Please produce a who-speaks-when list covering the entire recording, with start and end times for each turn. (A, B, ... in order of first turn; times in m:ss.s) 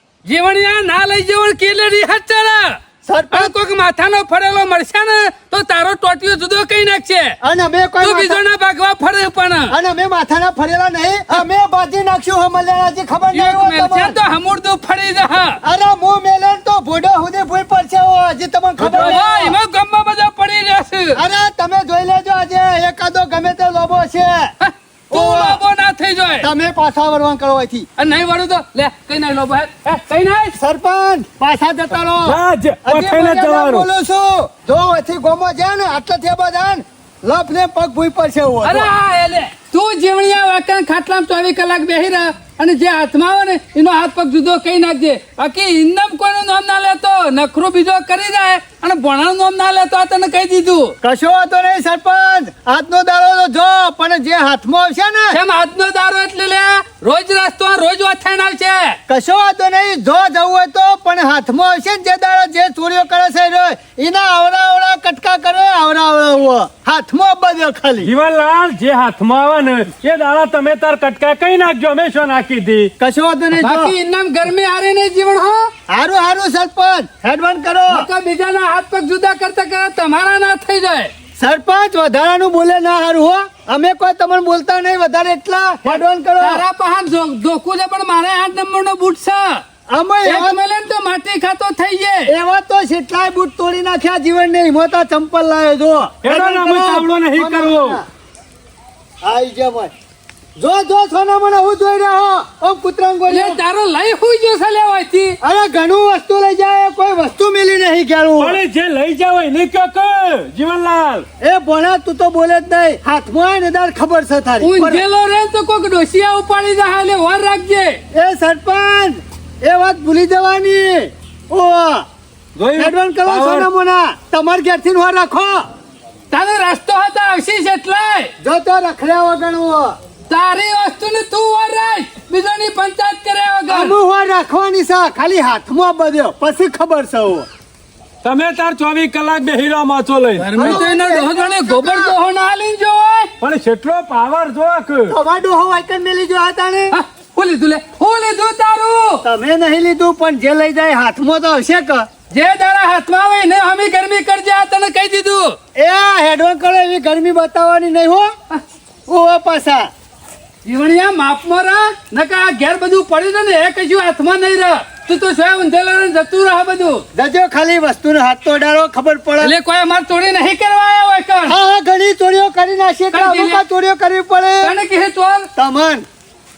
0:00.2-0:02.8 A
0:03.1-0:03.5 B
0:03.3-0:07.4 A
0:07.4-0:08.4 B
0:08.0-0:09.8 A
0:09.7-0:14.2 B
0:13.3-0:15.6 A
0:15.6-0:19.6 B
0:18.8-0:19.2 C
0:18.8-0:21.2 A
0:21.2-0:24.5 B
0:24.6-0:26.5 A
0:25.1-0:25.6 B
0:26.4-0:27.9 B
0:28.0-0:30.6 A
0:30.6-0:38.9 B
0:32.2-0:33.9 C
0:38.6-0:51.0 A
0:51.0-0:55.4 B
0:55.3-0:59.0 A
0:59.1-1:08.1 B
1:08.0-1:12.9 C
1:13.0-1:13.9 B
1:13.5-1:15.7 A
1:15.9-1:18.1 B
1:17.9-1:21.1 A
1:21.4-1:26.6 B
1:26.4-1:29.6 A
1:29.9-1:30.6 B
1:30.2-1:32.3 A
1:32.3-1:38.0 B
1:36.2-1:38.0 C
1:39.2-1:39.9 B
1:40.6-1:43.6 B
1:43.3-1:45.4 A
1:45.4-1:48.6 B
1:48.4-1:51.2 C
1:51.4-1:55.0 B
1:54.6-1:58.0 A
1:58.1-2:02.0 B
2:02.6-2:03.7 C
2:02.8-2:05.6 B
2:06.3-2:08.3 A
2:08.4-2:10.0 B
2:10.3-2:13.9 A
2:13.7-2:17.5 B
2:18.2-2:20.8 C
2:20.4-2:23.3 A
2:20.6-2:22.1 B
2:23.4-2:25.2 C
2:25.1-2:26.9 B
2:26.9-2:29.2 A
2:29.2-2:32.1 B
2:32.3-2:35.6 A
2:35.8-2:38.3 B
2:39.1-2:39.9 B
2:40.6-2:47.0 A
2:47.1-2:49.5 B
2:49.4-2:51.6 A
2:51.5-2:54.8 B
2:53.1-2:53.6 A
2:54.6-2:55.5 A
2:55.6-2:56.0 B